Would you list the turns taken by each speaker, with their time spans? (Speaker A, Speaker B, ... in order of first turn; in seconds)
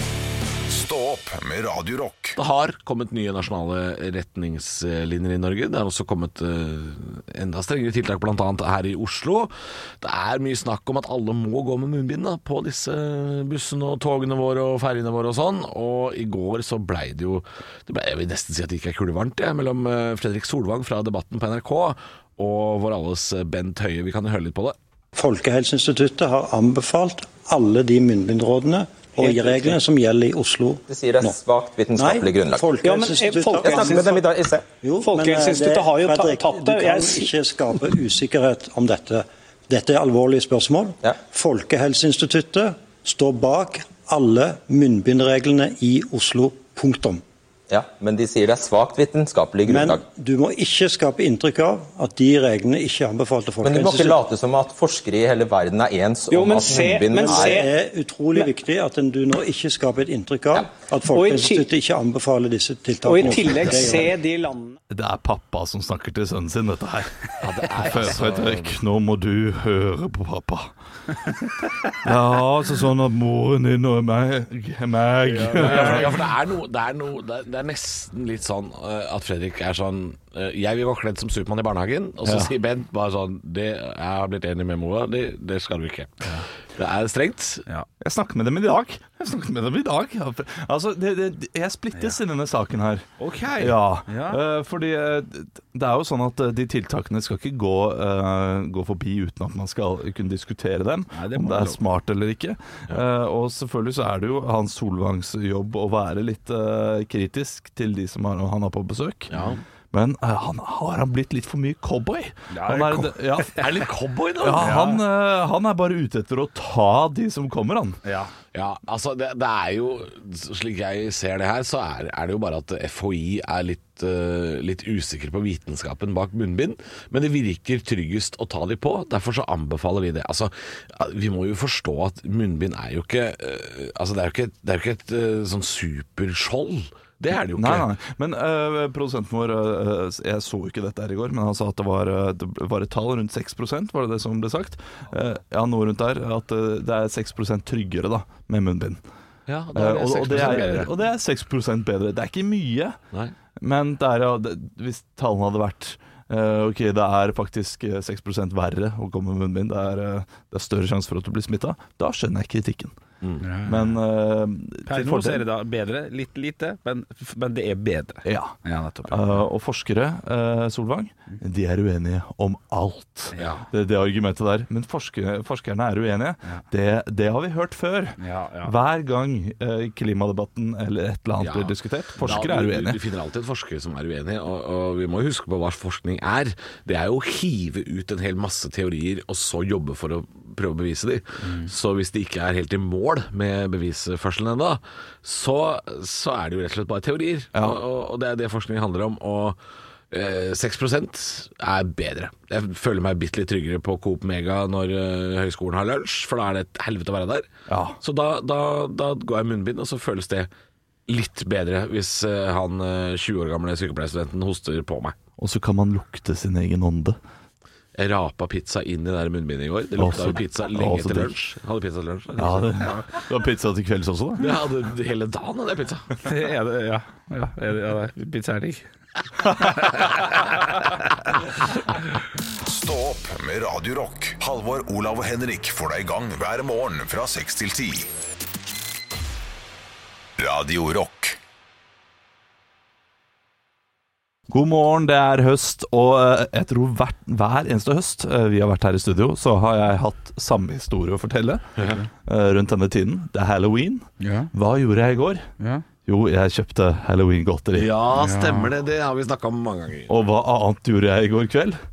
Speaker A: 0.7-2.4, 232.6-238.1, 240.4-241.4
Speaker B: 2.4-24.8, 67.4-68.7, 75.4-87.7, 109.3-109.6, 113.6-114.8, 118.5-137.9, 149.5-150.9, 173.3-173.6, 181.4-199.6, 200.1-207.4, 208.0-210.5, 211.1-215.2, 217.9-223.0, 224.4-226.1, 257.7-260.1
Speaker C: 25.1-31.4, 31.9-34.1, 34.7-47.2, 49.7-54.2, 56.6-64.1
Speaker D: 29.2-29.6, 32.8-34.2, 35.0-37.3, 56.3-57.7, 61.1-61.7, 63.0-64.8
Speaker E: 30.9-32.7, 33.6-34.6, 47.7-50.0, 53.6-57.7, 63.2-64.0
Speaker F: 64.9-70.7, 72.0-76.2, 82.2-82.5, 88.0-93.0, 93.6-109.3, 109.9-113.5, 114.4-118.0, 137.5-149.0, 149.7-153.0, 153.6-162.9, 163.6-165.4, 168.2-168.5, 169.1-183.0, 197.5-197.8, 207.7-208.0, 215.4-217.2, 220.0-221.3, 222.4-224.6, 244.5-255.5, 256.0-257.9, 260.1-261.8
Speaker G: 75.4-76.0, 93.2-94.4, 101.1-101.8, 112.5-113.7, 114.6-115.0, 118.0-118.3, 163.4-164.0, 164.8-169.4, 173.3-173.6, 178.2-178.7, 191.4-191.7, 226.2-228.8, 229.4-231.3, 254.2-254.5, 255.6-255.8, 258.1-258.7